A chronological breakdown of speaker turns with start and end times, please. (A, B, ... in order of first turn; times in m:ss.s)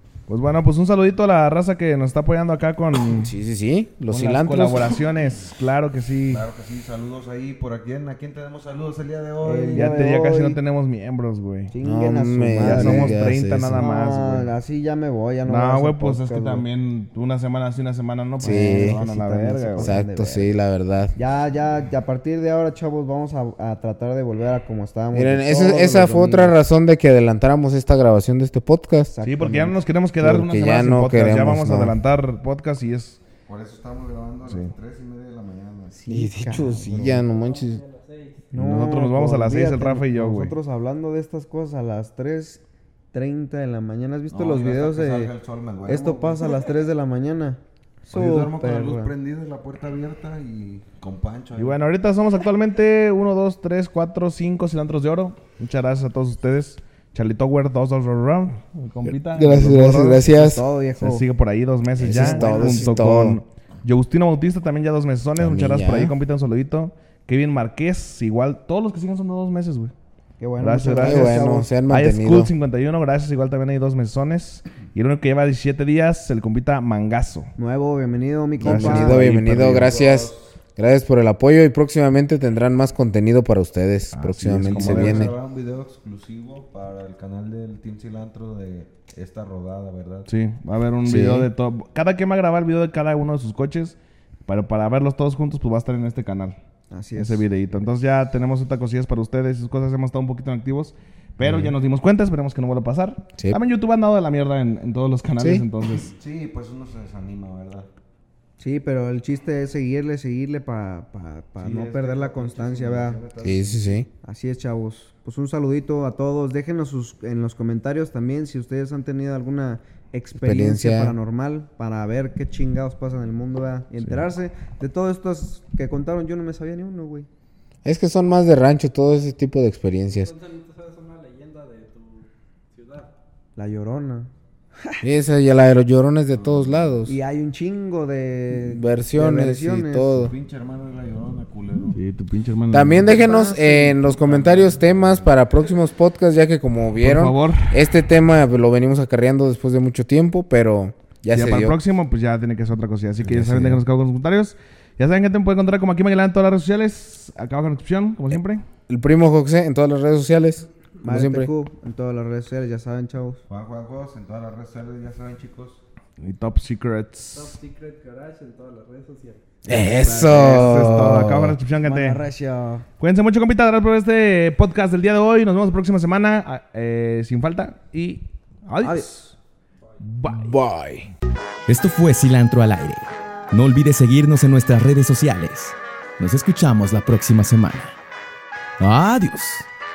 0:00.3-0:03.3 A
0:03.2-0:05.0 B
0:04.1-0:06.5 A
0:06.3-0:10.0 C
0:09.4-0:10.6 D
0:09.7-0:11.7 A
0:11.7-0:16.6 D
0:11.8-0:13.9 B
0:12.6-0:14.5 A
0:15.5-0:19.9 A
0:18.4-0:20.5 D
0:18.4-0:19.0 B
0:19.8-0:21.1 B
0:21.1-0:26.6 D
0:25.1-0:29.1 B
0:29.1-0:29.8 D
0:29.2-0:33.2 A
0:30.2-0:32.0 B
0:33.4-0:35.9 C
0:34.4-0:34.7 A
0:35.9-0:37.1 D
0:36.1-0:37.8 B
0:37.0-0:38.5 E
0:38.5-0:42.6 D
0:38.5-0:40.6 A
0:43.1-0:45.3 D
0:44.3-0:46.4 C
0:45.8-0:49.1 D
0:46.4-0:46.7 E
0:48.1-0:51.8 C
0:51.5-1:00.3 A
0:59.0-1:00.6 B
0:59.7-1:01.2 D
1:01.0-1:09.9 A
1:02.0-1:03.4 B
1:02.0-1:03.0 D
1:05.4-1:06.1 B
1:10.4-1:11.7 D
1:10.6-1:17.5 A
1:11.0-1:12.5 B
1:17.6-1:19.4 D
1:18.6-1:25.4 B
1:18.6-1:19.8 A
1:19.6-1:20.5 C
1:24.1-1:25.3 A
1:24.7-1:30.3 C
1:30.3-1:36.6 A
1:31.0-1:31.5 B
1:36.9-1:37.5 D
1:37.2-1:46.1 A
1:41.4-1:41.7 B
1:45.4-1:45.6 B
1:45.9-1:47.9 C
1:48.6-1:53.2 D
1:51.6-1:54.0 C
1:53.4-1:54.1 B
1:54.2-2:07.3 D
2:00.4-2:01.2 B
2:07.8-2:10.3 B
2:10.1-2:13.1 E
2:13.6-2:15.0 D
2:15.0-2:17.1 B
2:16.3-2:17.0 C
2:17.0-2:20.1 D
2:18.5-2:20.3 B
2:20.1-2:22.0 C
2:21.9-2:23.2 A
2:22.7-2:31.8 B
2:23.1-2:24.0 D
2:23.2-2:25.3 C
2:27.0-2:27.8 A
2:31.3-2:38.6 A
2:33.2-2:33.8 B
2:38.9-2:41.5 B
2:41.0-2:43.4 D
2:43.5-2:45.8 C
2:46.2-2:47.5 A
2:47.3-2:49.4 E
2:49.6-2:51.6 B
2:49.7-2:51.2 D
2:50.2-2:52.2 A
2:51.8-2:52.8 D
2:53.0-2:59.3 A
2:58.8-2:59.2 D
3:00.0-3:00.6 A
3:00.2-3:01.1 B
3:01.7-3:07.9 F
3:08.8-3:09.7 F